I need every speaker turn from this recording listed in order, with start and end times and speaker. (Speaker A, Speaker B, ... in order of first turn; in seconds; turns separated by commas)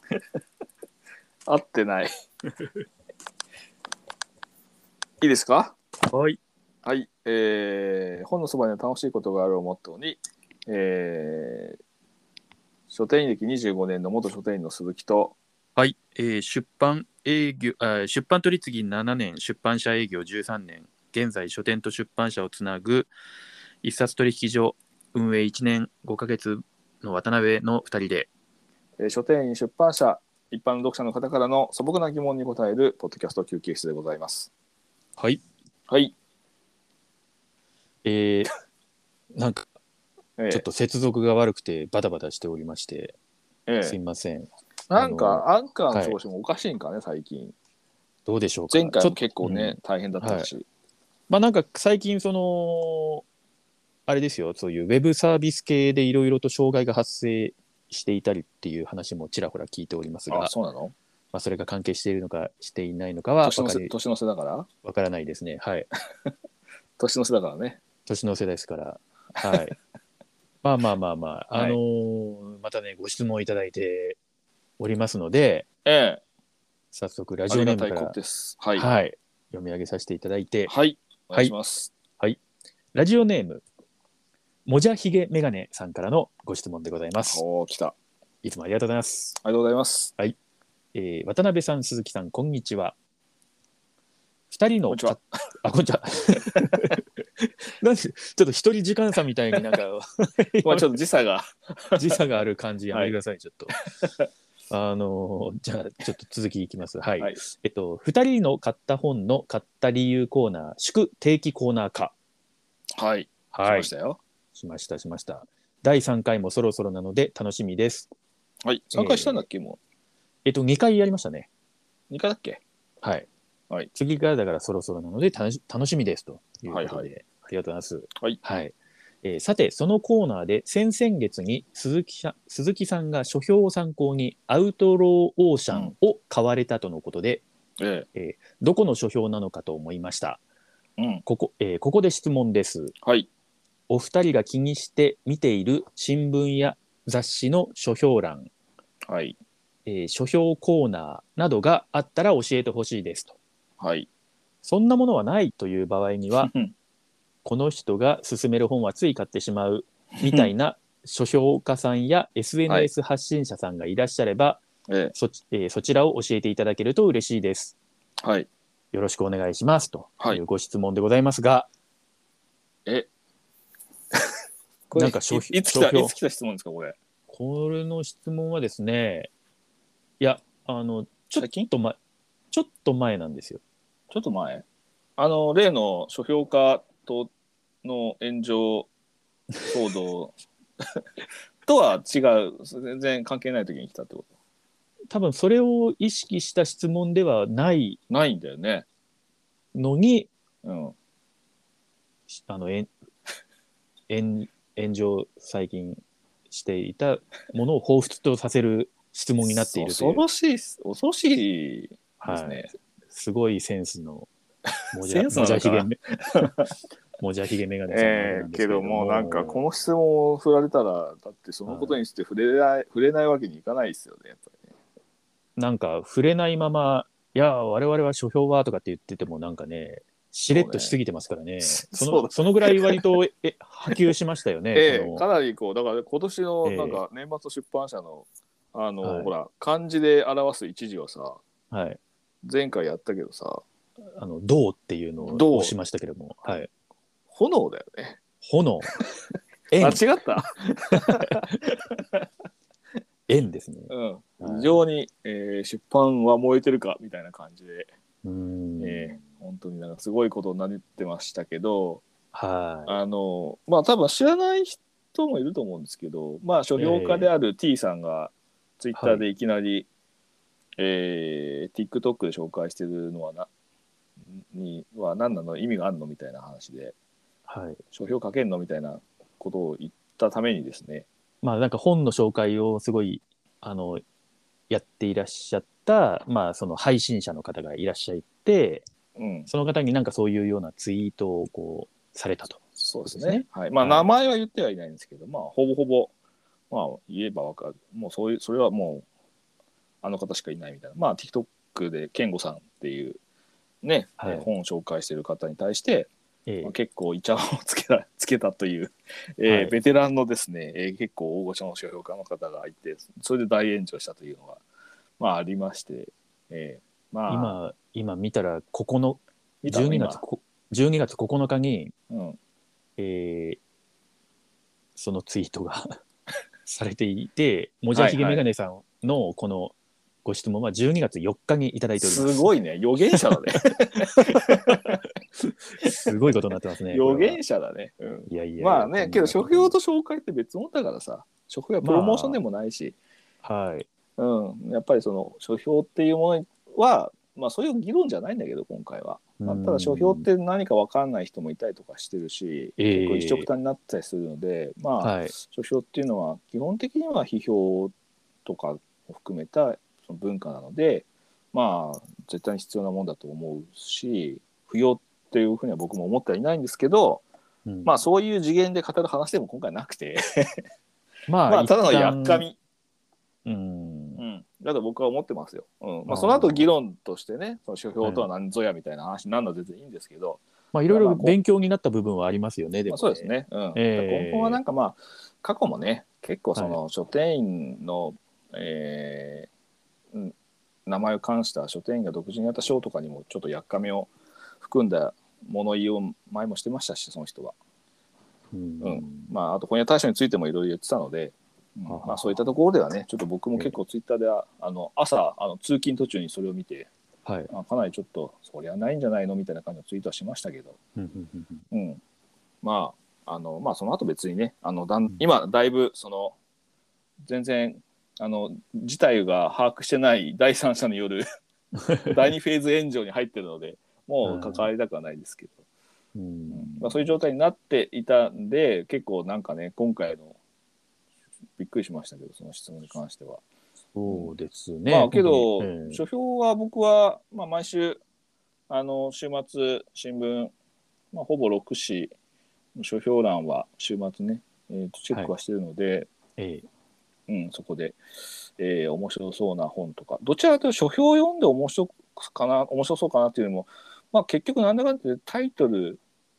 Speaker A: 1.5-2.1, Speaker A: 5.2-5.8, Speaker B: 6.1-6.4, Speaker A: 6.8-11.8, Speaker A: 12.9-15.4, Speaker B: 15.8-23.1, Speaker B: 23.8-28.3, Speaker A: 29.0-34.5, Speaker B: 35.2-35.4, Speaker A: 35.9-36.1, Speaker B: 38.0-38.5, Speaker B: 39.4-39.7, Speaker A: 40.4-40.6, Speaker B: 40.5-43.1, Speaker A: 43.7-44.0, Speaker B: 43.8-46.2, Speaker A: 44.9-47.5, Speaker B: 48.3-50.5, Speaker A: 48.7-50.6, Speaker B: 51.3-53.2, Speaker B: 54.1-60.5, Speaker A: 60.3-61.0, Speaker B: 61.3-63.9, Speaker A: 63.4-64.7, Speaker B: 64.8-65.9, Speaker A: 67.0-67.8, Speaker B: 68.1-69.8, Speaker A: 69.4-69.7, Speaker B: 70.6-74.2, Speaker B: 74.8-75.7, Speaker A: 75.8-76.2, Speaker B: 76.9-78.2, Speaker A: 77.5-78.9, Speaker B: 78.8-80.7, Speaker A: 80.7-81.9, Speaker B: 83.0-83.6, Speaker B: 84.7-87.4, Speaker A: 87.2-88.0, Speaker B: 88.4-89.4, Speaker A: 89.4-90.1, Speaker B: 90.9-93.0, Speaker B: 94.5-97.0, Speaker A: 94.9-95.2, Speaker B: 97.7-100.9, Speaker A: 100.6-102.2, Speaker B: 102.0-103.8, Speaker B: 104.7-112.1, Speaker A: 113.0-114.2, Speaker B: 113.5-113.9, Speaker B: 114.5-118.1, Speaker A: 118.6-119.8, Speaker B: 118.9-119.4, Speaker B: 120.5-121.5, Speaker A: 122.1-122.6, Speaker B: 123.0-123.3, Speaker B: 123.9-137.4, Speaker A: 126.7-127.1, Speaker A: 137.8-138.1, Speaker B: 138.2-140.4, Speaker A: 141.0-141.2, Speaker B: 141.2-142.9, Speaker A: 143.0-143.3, Speaker B: 143.9-148.5, Speaker A: 149.1-149.4, Speaker B: 149.9-153.4, Speaker A: 153.8-154.1, Speaker B: 154.6-156.5, Speaker A: 156.4-156.7, Speaker B: 157.4-164.6, Speaker A: 160.2-160.5, Speaker A: 164.9-165.1, Speaker B: 165.1-167.8, Speaker A: 168.2-168.5, Speaker B: 168.9-171.7, Speaker A: 174.9-177.0, Speaker B: 174.9-176.2, Speaker B: 177.3-179.3, Speaker B: 180.2-182.0, Speaker A: 181.4-181.7, Speaker B: 182.5-183.6, Speaker A: 184.1-184.7, Speaker A: 185.2-187.3, Speaker A: 187.8-188.9, Speaker A: 189.7-190.3, Speaker A: 191.7-194.2, Speaker B: 195.1-198.0, Speaker A: 198.1-198.9, Speaker B: 199.7-200.3, Speaker A: 200.6-200.9, Speaker B: 202.3-202.9, Speaker B: 204.1-210.2, Speaker A: 209.4-212.7, Speaker B: 212.2-214.3, Speaker B: 214.9-216.5, Speaker A: 215.1-216.6, Speaker B: 217.2-219.6, Speaker A: 217.9-224.7, Speaker B: 221.7-222.0, Speaker B: 225.6-235.2, Speaker A: 230.5-230.9, Speaker A: 231.6-233.1, Speaker A: 233.9-234.2, Speaker A: 234.8-241.4, Speaker B: 236.6-237.0, Speaker B: 239.0-239.3, Speaker B: 241.7-242.0, Speaker A: 242.4-243.6, Speaker B: 244.1-246.7, Speaker A: 245.2-245.7, Speaker A: 247.3-248.2, Speaker B: 248.4-249.1, Speaker B: 249.7-250.1, Speaker A: 249.8-252.2, Speaker B: 250.9-251.6, Speaker B: 253.3-254.8, Speaker A: 253.9-257.9, Speaker B: 258.2-259.2, Speaker A: 258.8-262.0, Speaker B: 262.3-263.0, Speaker A: 262.9-269.9, Speaker B: 266.8-267.3, Speaker B: 268.9-269.3, Speaker A: 270.8-273.5, Speaker A: 274.3-276.9, Speaker B: 277.5-277.8, Speaker A: 277.9-281.1, Speaker B: 281.4-284.0, Speaker B: 284.7-288.9, Speaker A: 289.2-289.5, Speaker B: 289.5-294.1, Speaker A: 292.8-296.1, Speaker A: 296.7-299.1, Speaker A: 300.0-303.2, Speaker A: 303.8-306.1, Speaker B: 304.2-304.5, Speaker B: 306.5-306.8, Speaker A: 306.6-314.6, Speaker B: 309.5-309.8, Speaker A: 315.2-317.6, Speaker B: 317.3-321.9, Speaker A: 319.6-320.2, Speaker A: 322.1-322.4, Speaker B: 323.0-323.6, Speaker B: 325.0-326.0, Speaker B: 326.7-332.5, Speaker A: 327.9-328.4, Speaker A: 332.0-335.0, Speaker B: 334.4-334.8, Speaker B: 335.4-337.4, Speaker A: 336.9-343.0, Speaker B: 338.3-339.8, Speaker B: 341.8-342.4, Speaker B: 343.4-343.9, Speaker A: 344.2-357.9, Speaker B: 349.4-350.3, Speaker B: 352.8-353.5, Speaker B: 355.0-355.4, Speaker A: 358.4-367.2, Speaker B: 367.7-368.0, Speaker A: 367.9-370.6, Speaker B: 371.3-372.4, Speaker A: 371.5-372.6, Speaker B: 373.4-374.2, Speaker A: 374.2-381.4, Speaker B: 376.1-376.7, Speaker B: 378.0-378.3, Speaker B: 380.7-384.6, Speaker A: 382.9-389.5, Speaker A: 390.9-394.1, Speaker A: 394.6-397.6, Speaker B: 398.5-399.3, Speaker A: 398.8-406.9, Speaker B: 401.9-402.4, Speaker B: 407.2-407.5, Speaker A: 407.5-410.8, Speaker B: 411.0-411.6, Speaker A: 411.7-412.0, Speaker A: 412.6-416.4, Speaker A: 417.2-421.2, Speaker A: 422.0-425.6, Speaker B: 424.2-424.7, Speaker B: 426.2-427.1, Speaker A: 426.5-430.4, Speaker A: 431.6-433.4, Speaker B: 433.9-436.0, Speaker A: 434.9-438.0, Speaker A: 438.7-440.5, Speaker A: 441.1-442.1, Speaker A: 442.8-446.1, Speaker B: 446.4-446.7, Speaker A: 447.3-448.0, Speaker A: 448.6-456.0